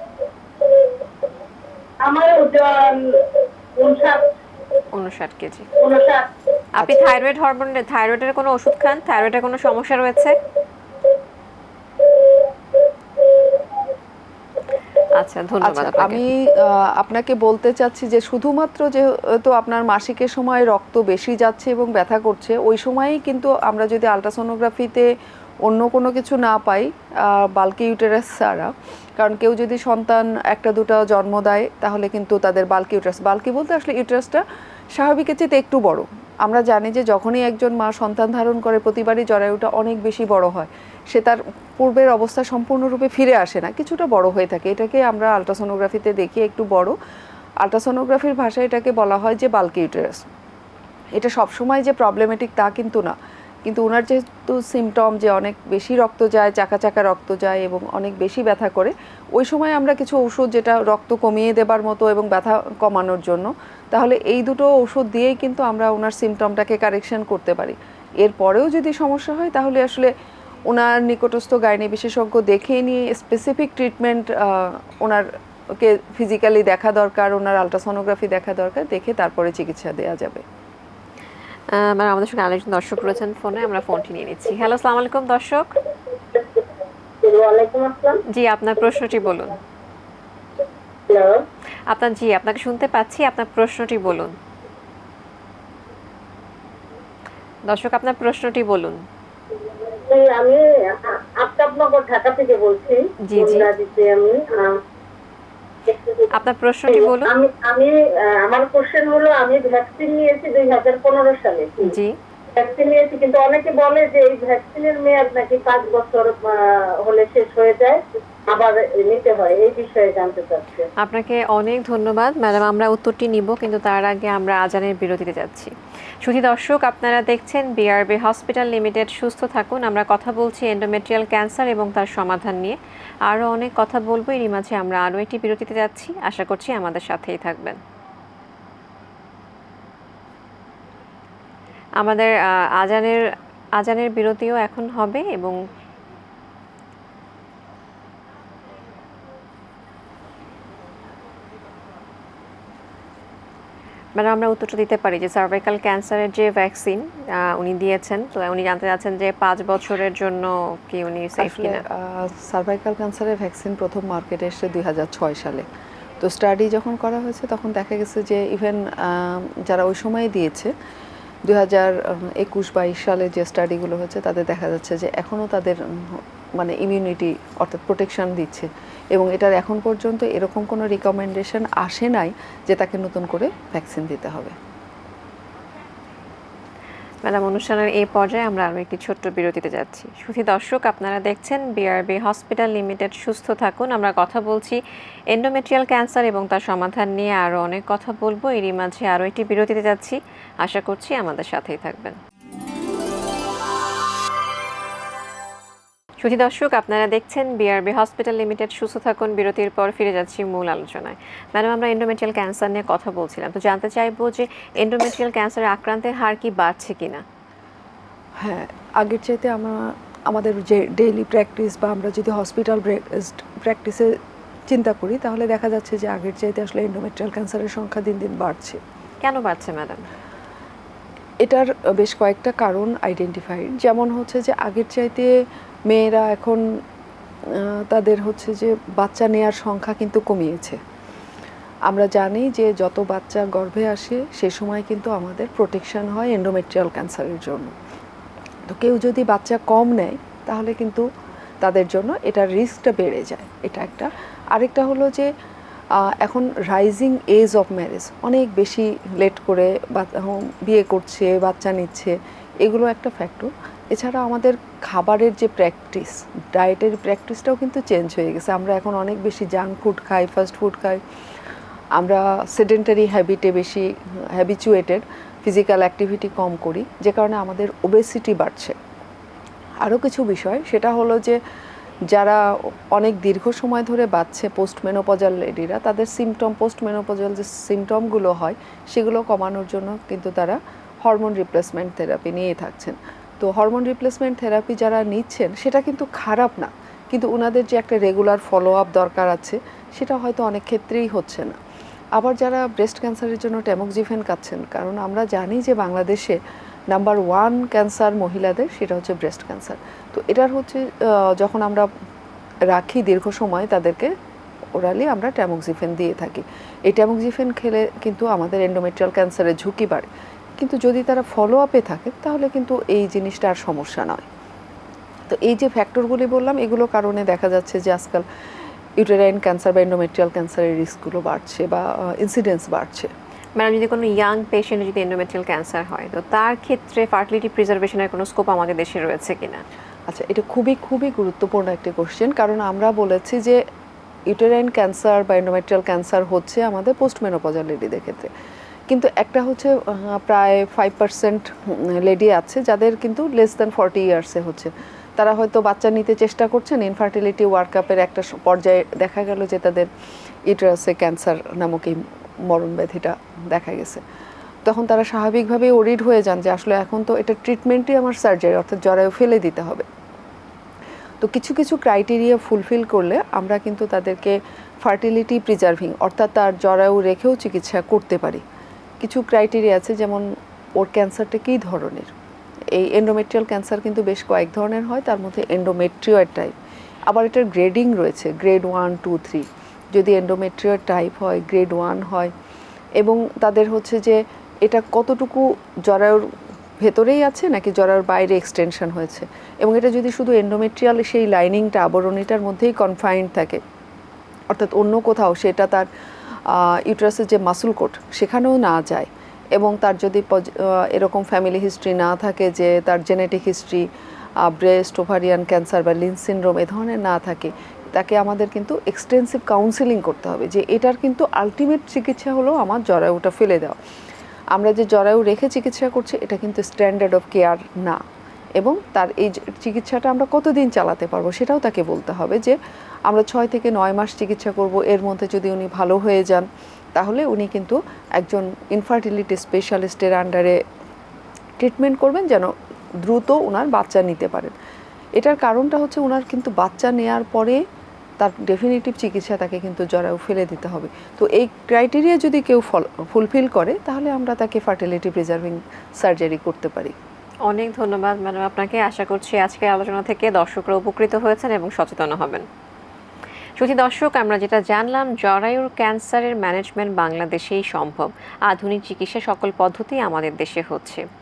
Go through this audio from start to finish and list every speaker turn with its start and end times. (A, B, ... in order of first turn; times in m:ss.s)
0:02.0-0:03.2 A
0:03.8-0:04.3 A
0:04.9-0:05.7 B
0:05.8-0:06.3 A
0:06.8-0:10.4 B
0:15.2-0:16.2 B
0:15.6-0:25.1 C
0:25.6-0:34.4 C
0:34.9-0:46.9 C
0:47.6-0:50.2 C
0:51.1-1:10.1 C
1:10.7-1:20.4 C
1:21.7-1:25.7 B
1:27.2-1:28.2 A
1:28.3-1:29.6 B
1:31.1-1:31.4 A
1:31.9-1:34.4 B
1:37.7-1:39.0 B
1:39.9-1:44.8 A
1:43.2-1:43.7 B
1:45.9-1:46.3 A
1:46.3-1:47.3 B
1:46.9-1:51.9 A
1:51.8-1:52.2 B
1:52.6-2:00.9 A
2:01.0-2:17.8 B
2:22.0-2:23.3 B
2:23.8-2:25.6 B
2:34.2-2:41.8 B
2:41.4-2:45.6 C
2:46.2-2:50.7 C
2:51.5-3:04.5 C
3:07.2-3:14.8 B
3:15.3-3:22.2 B
3:26.2-3:37.2 B
3:38.4-3:44.1 C
3:44.7-3:48.8 C
3:49.2-3:50.1 B
3:51.4-3:55.3 C
3:55.9-3:56.6 C
3:57.5-4:00.8 C
4:01.9-4:07.7 C
4:08.7-4:11.0 C
4:11.6-4:15.3 C
4:16.0-4:31.0 C
4:31.9-4:38.8 C
4:39.8-4:41.4 C
4:42.1-4:42.4 C
4:42.9-5:01.6 C
5:02.2-5:06.4 C
5:06.9-5:11.9 C
5:12.7-5:14.1 C
5:14.8-5:24.2 C
5:25.3-5:28.2 C
5:29.0-5:33.1 C
5:33.6-5:39.6 B
5:40.1-5:43.6 C
5:44.3-5:48.3 C
5:48.9-5:59.9 C
6:00.5-6:04.0 C
6:04.6-6:09.9 C
6:11.2-6:18.4 C
6:19.0-6:22.1 C
6:22.7-6:26.5 C
6:27.1-6:32.3 C
6:33.0-6:43.6 C
6:44.5-6:45.9 C
6:46.5-6:53.8 C
6:54.4-7:03.8 C
7:04.5-7:08.0 C
7:08.6-7:12.5 C
7:13.1-7:20.6 C
7:21.6-7:22.5 C
7:23.0-7:24.5 C
7:25.2-7:27.6 C
7:28.2-7:36.9 C
7:37.4-7:42.4 B
7:43.6-7:51.0 B